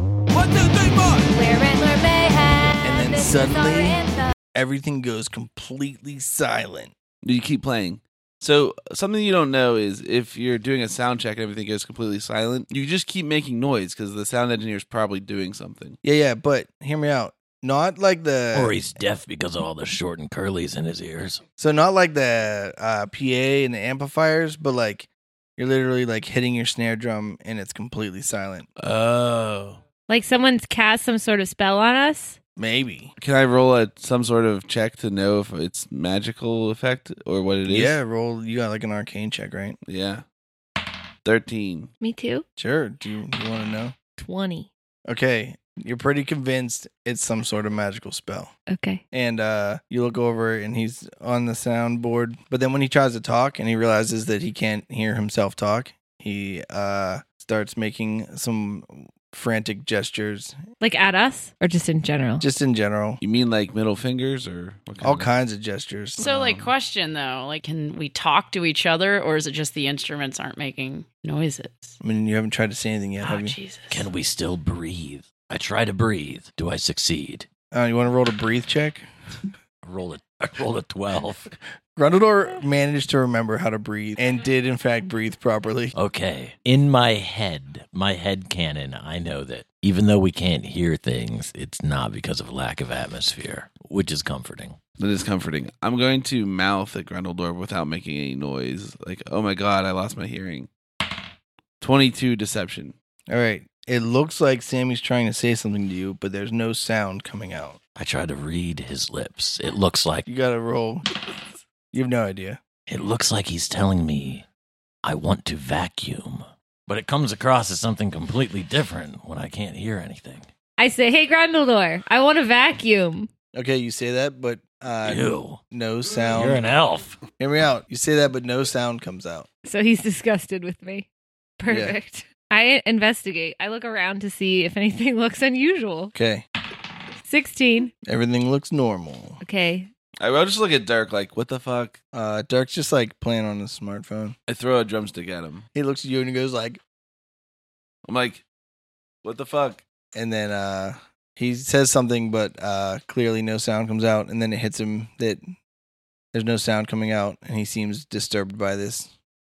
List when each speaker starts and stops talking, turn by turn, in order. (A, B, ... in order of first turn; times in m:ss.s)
0:00.3-0:01.3 A
0:01.3-0:04.3 B
0:02.8-0:04.0 C
0:04.5-0:06.9 C
0:07.2-0:16.0 A
0:16.0-0:18.8 C
0:18.5-0:21.4 D
0:21.6-0:28.7 C
0:28.8-0:29.8 A
0:30.1-0:32.4 E
0:32.6-0:33.1 C
0:33.2-0:38.0 A
0:37.7-0:39.8 C
0:39.9-0:40.2 A
0:41.2-0:41.9 A
0:42.0-0:42.4 E
0:42.6-0:44.0 C
0:44.2-0:44.7 E
0:45.1-0:48.5 C
0:48.7-0:49.0 E
0:49.1-1:00.6 C
1:00.8-1:02.5 E
1:02.4-1:03.2 C
1:03.2-1:05.3 A
1:05.0-1:06.3 C
1:06.2-1:12.0 F
1:12.0-1:13.6 C
1:13.2-1:14.1 F
1:13.9-1:17.5 D
1:17.7-1:19.1 C
1:19.8-1:21.5 D
1:22.0-1:25.9 C
1:25.9-1:34.8 D
1:35.0-1:40.7 A
1:41.8-1:43.0 A
1:43.3-1:47.8 C
1:48.0-1:50.3 D
1:50.3-1:51.1 C
1:51.9-1:52.6 C
1:52.9-1:54.5 D
1:55.0-2:00.5 D
2:00.8-2:03.3 E
2:03.5-2:06.6 C
2:05.0-2:05.6 D
2:06.3-2:07.2 D
2:07.4-2:09.5 C
2:09.6-2:11.1 E
2:11.6-2:16.1 E
2:11.7-2:12.0 C
2:16.1-2:16.4 C
2:17.2-2:17.9 E
2:18.0-2:19.4 C
2:19.4-2:19.9 E
2:20.2-2:22.0 A
2:22.1-2:24.4 C
2:24.5-2:25.7 A
2:25.8-2:26.8 C
2:28.1-2:28.4 A
2:29.2-2:29.8 A
2:30.1-2:35.4 C
2:36.3-2:39.1 C